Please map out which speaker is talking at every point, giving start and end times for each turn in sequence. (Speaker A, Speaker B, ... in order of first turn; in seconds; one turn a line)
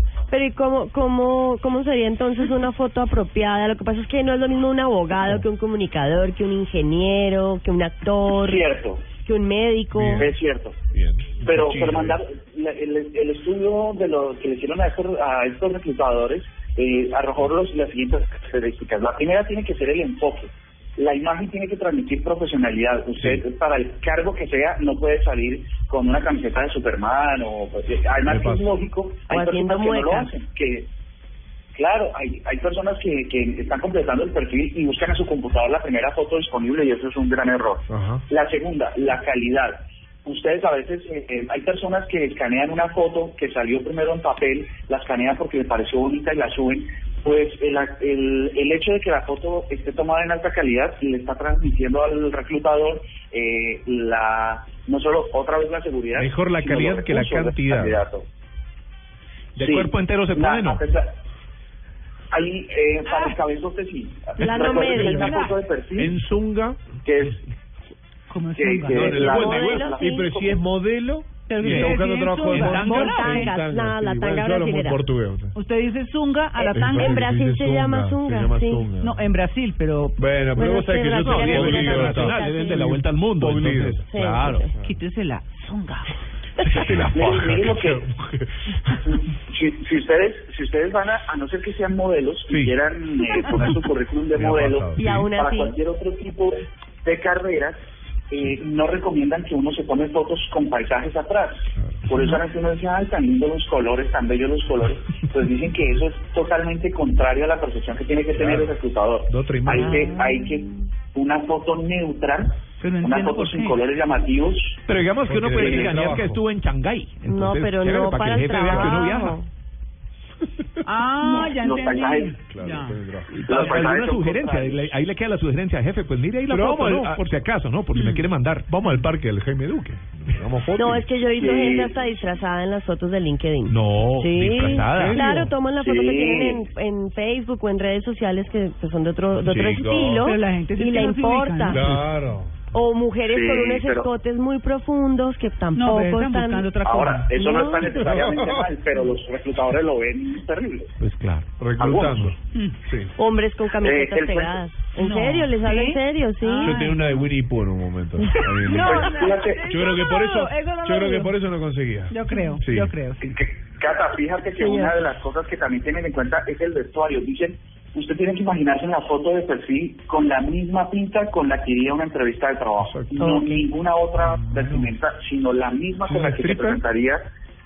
Speaker A: 0.3-8.6
Speaker B: 8.3-9.1
Speaker A: 9.2-10.3
Speaker C: 9.9-10.4
Speaker B: 10.2-10.8
Speaker C: 10.9-12.2
Speaker B: 11.4-30.9
Speaker C: 23.2-23.4
Speaker C: 28.3-28.7
Speaker A: 29.3-30.3
Speaker B: 31.8-58.3
Speaker C: 37.9-38.2
Speaker C: 56.1-58.0
Speaker D: 59.6-60.8
Speaker B: 59.6-61.2
Speaker B: 62.3-66.2
Speaker E: 63.0-63.4
Speaker A: 64.4-65.3
Speaker E: 64.4-65.5
Speaker C: 66.0-66.8
Speaker B: 67.0-67.4
Speaker E: 68.3-69.1
Speaker B: 68.5-70.6
Speaker C: 68.9-75.6
Speaker A: 69.0-70.2
Speaker D: 69.2-69.9
Speaker E: 71.5-73.5
Speaker D: 71.6-72.0
Speaker A: 72.5-75.0
Speaker D: 72.5-73.1
Speaker E: 75.5-77.2
Speaker A: 76.6-78.9
Speaker C: 76.7-79.2
Speaker E: 79.0-80.3
Speaker C: 80.2-84.1
Speaker A: 80.6-82.9
Speaker D: 81.1-84.7
Speaker A: 84.1-84.7
Speaker C: 84.6-84.9
Speaker E: 84.7-86.2
Speaker C: 86.6-89.2
Speaker B: 87.1-88.1
Speaker B: 89.2-114.8
Speaker C: 92.5-92.8
Speaker C: 93.5-95.2
Speaker A: 95.0-95.7
Speaker C: 108.4-108.7
Speaker C: 109.3-110.0
Speaker A: 109.7-110.7
Speaker E: 112.8-113.8
Speaker D: 114.9-119.4
Speaker C: 115.2-116.4
Speaker A: 117.3-119.5
Speaker C: 118.7-119.0
Speaker E: 120.8-123.0
Speaker B: 121.2-122.4
Speaker C: 122.5-123.3
Speaker D: 123.3-128.7
Speaker B: 123.5-124.9
Speaker C: 126.5-127.4
Speaker E: 127.9-128.3
Speaker C: 128.7-131.1
Speaker A: 130.8-141.9
Speaker B: 131.4-132.0
Speaker D: 133.7-135.3
Speaker C: 134.6-135.5
Speaker B: 135.8-136.7
Speaker C: 139.5-140.2
Speaker E: 140.2-141.9
Speaker C: 141.7-142.6
Speaker A: 142.7-146.7
Speaker B: 143.3-144.1
Speaker E: 145.7-147.3
Speaker B: 146.8-150.9
Speaker A: 147.3-148.0
Speaker C: 148.1-148.6
Speaker D: 151.0-151.5
Speaker C: 151.6-153.1
Speaker B: 151.8-152.3
Speaker A: 153.2-156.9
Speaker B: 153.8-154.6
Speaker E: 155.0-157.0
Speaker C: 156.6-162.9
Speaker A: 158.2-158.5
Speaker E: 158.6-161.3
Speaker B: 158.8-159.7
Speaker E: 162.1-163.2
Speaker B: 163.2-177.2
Speaker A: 164.6-164.9
Speaker C: 172.8-173.1
Speaker A: 173.2-173.6
Speaker C: 174.4-174.9
Speaker C: 176.1-176.8